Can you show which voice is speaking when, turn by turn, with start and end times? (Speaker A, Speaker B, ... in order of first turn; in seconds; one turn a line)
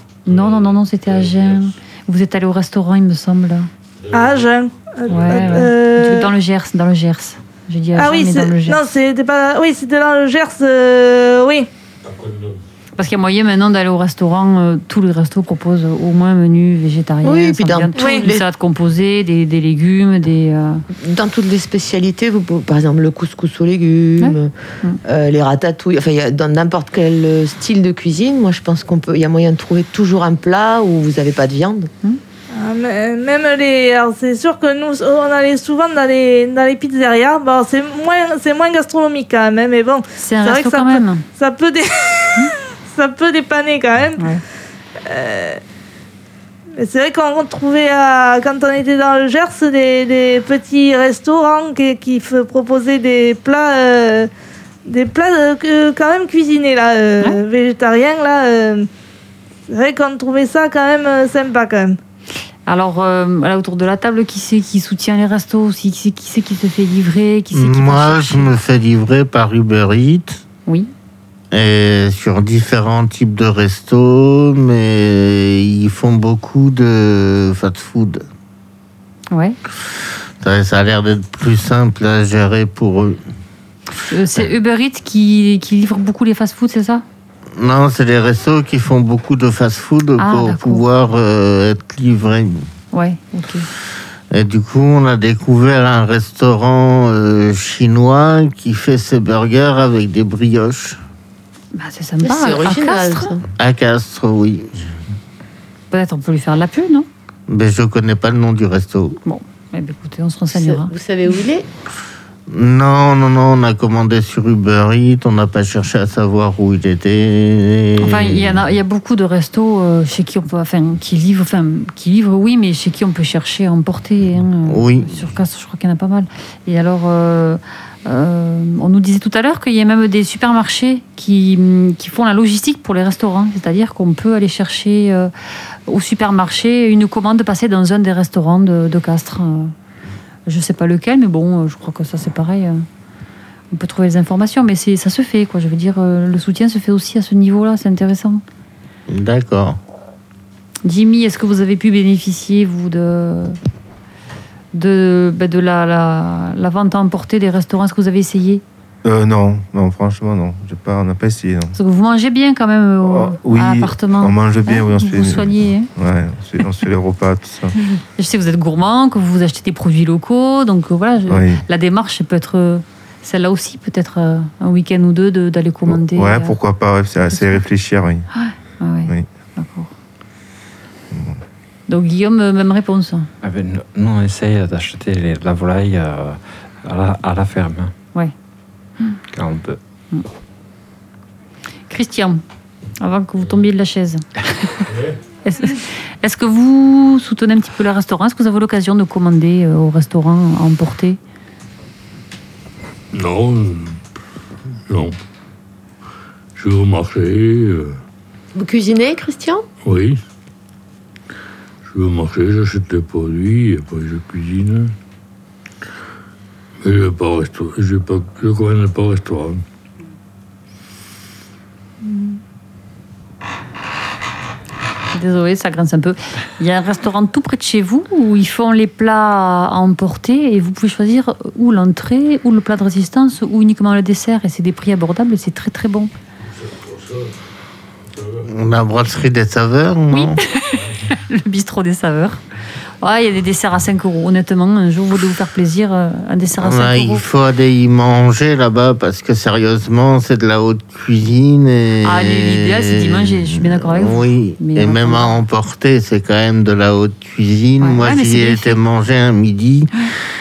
Speaker A: 0.2-3.7
Speaker B: 0.3-1.4
Speaker C: 4.1-6.3
Speaker A: 5.1-8.8
Speaker B: 5.1-5.5
Speaker C: 7.9-11.7
Speaker B: 12.1-12.5
Speaker A: 13.0-20.8
Speaker D: 17.2-18.4
Speaker C: 17.9-18.2
Speaker D: 21.0-24.5
Speaker A: 24.2-25.0
Speaker D: 25.0-31.9
Speaker C: 32.5-44.3
Speaker A: 40.2-41.2
Speaker C: 45.0-45.6
Speaker C: 46.8-54.3
Speaker C: 54.9-58.9
Speaker C: 59.7-62.0
Speaker A: 62.7-68.5
Speaker E: 67.5-70.4
Speaker E: 71.5-78.2
Speaker A: 79.3-79.6
Speaker E: 80.4-83.2
Speaker A: 84.0-87.0
Speaker E: 87.5-92.7
Speaker A: 90.2-90.8
Speaker A: 92.9-93.7
Speaker E: 94.3-101.0
Speaker A: 101.7-103.3
Speaker D: 102.2-103.4
Speaker E: 103.5-104.8
Speaker A: 105.9-107.1
Speaker E: 107.5-109.2
Speaker A: 109.2-110.9
Speaker D: 110.5-111.7
Speaker E: 112.5-118.6
Speaker A: 118.0-135.3
Speaker E: 124.6-125.2
Speaker A: 135.9-139.7
Speaker A: 140.5-142.8
Speaker A: 143.7-148.4
Speaker E: 149.1-149.8
Speaker A: 150.8-153.6
Speaker A: 154.7-158.6
Speaker F: 159.0-161.8
Speaker A: 161.7-165.9
Speaker F: 163.0-167.7
Speaker A: 168.2-176.6
Speaker F: 171.3-171.6
Speaker F: 175.9-178.3
Speaker A: 177.3-177.6
Speaker A: 178.3-179.9
Speaker F: 181.1-181.4
Speaker A: 181.9-183.3
Speaker G: 183.4-187.9
Speaker G: 189.3-189.8
Speaker A: 191.9-192.4
Speaker A: 193.0-194.9
Speaker B: 194.9-195.2
Speaker A: 195.4-201.2
Speaker B: 203.1-204.0
Speaker B: 204.9-205.2
Speaker B: 206.6-208.0
Speaker D: 208.5-209.6
Speaker B: 209.8-210.2
Speaker B: 211.8-214.9
Speaker B: 216.8-219.6
Speaker A: 225.1-236.1
Speaker B: 236.6-237.3
Speaker B: 238.1-238.4
Speaker E: 238.4-240.4
Speaker A: 240.1-242.4
Speaker A: 243.0-247.2
Speaker E: 246.6-259.9
Speaker A: 252.0-255.4
Speaker A: 257.8-258.8